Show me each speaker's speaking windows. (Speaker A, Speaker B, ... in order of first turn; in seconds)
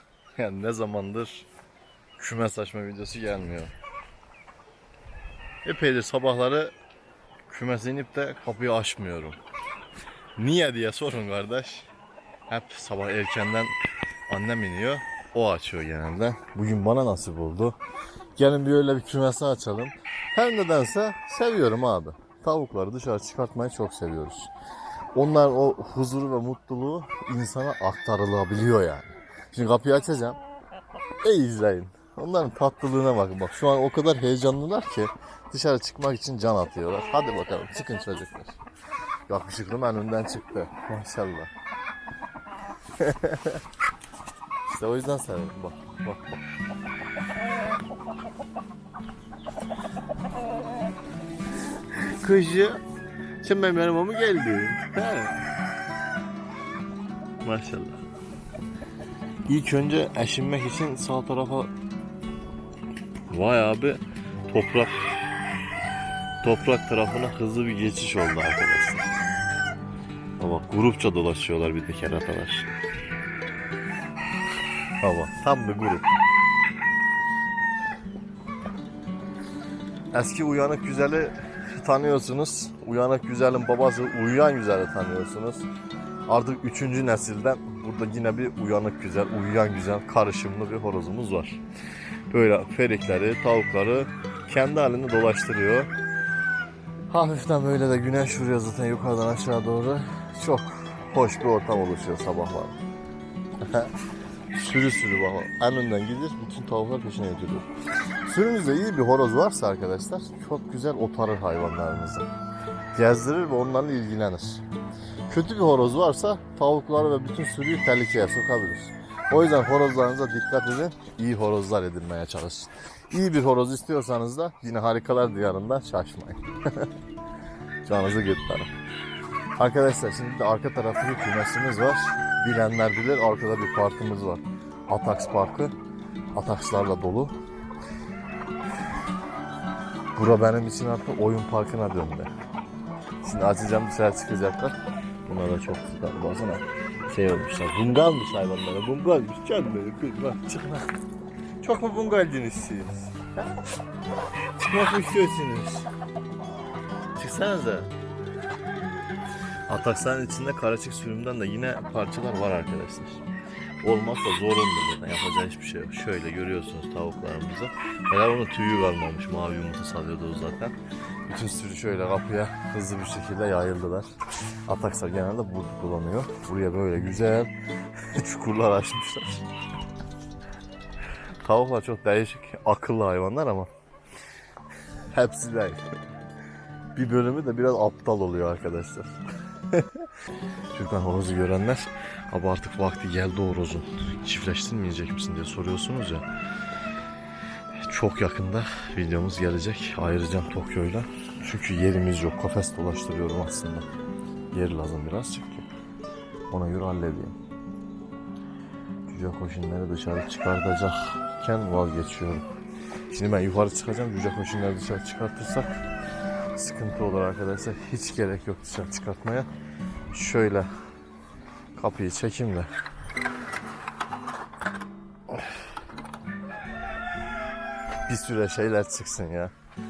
Speaker A: 0.4-1.5, 2.2-3.7, 5.7-6.7, 7.5-9.4, 10.4-11.9, 12.5-13.7, 14.3-17.8, 18.4-24.5, 25.1-30.4, 31.2-38.6, 39.3-41.5, 43.0-43.6, 44.7-46.4, 52.0-52.8, 53.4-55.5, 57.4-58.0, 59.5-61.7, 63.3-65.0, 66.4-69.1, 70.4-72.7, 75.0-76.1, 80.1-85.7, 86.3-91.6, 92.3-95.9, 97.1-102.8, 103.6-103.9, 104.5-107.7, 108.2-112.3, 112.9-114.6, 115.3-126.9, 127.9-128.7, 129.6-135.7, 136.3-137.3, 140.2-142.3, 143.2-150.9, 151.6-153.5, 154.6-155.9, 157.2-157.9, 159.7-163.2, 163.8-170.8, 171.3-174.1, 174.7-177.5, 178.1-179.5, 181.4-183.7, 185.1-185.8, 186.9-190.1, 190.7-196.3, 197.9-203.9, 204.5-205.7, 206.5-207.3, 209.1-212.4, 213.1-215.8, 216.6-219.5, 220.1-220.7, 221.8-222.7, 228.1-229.5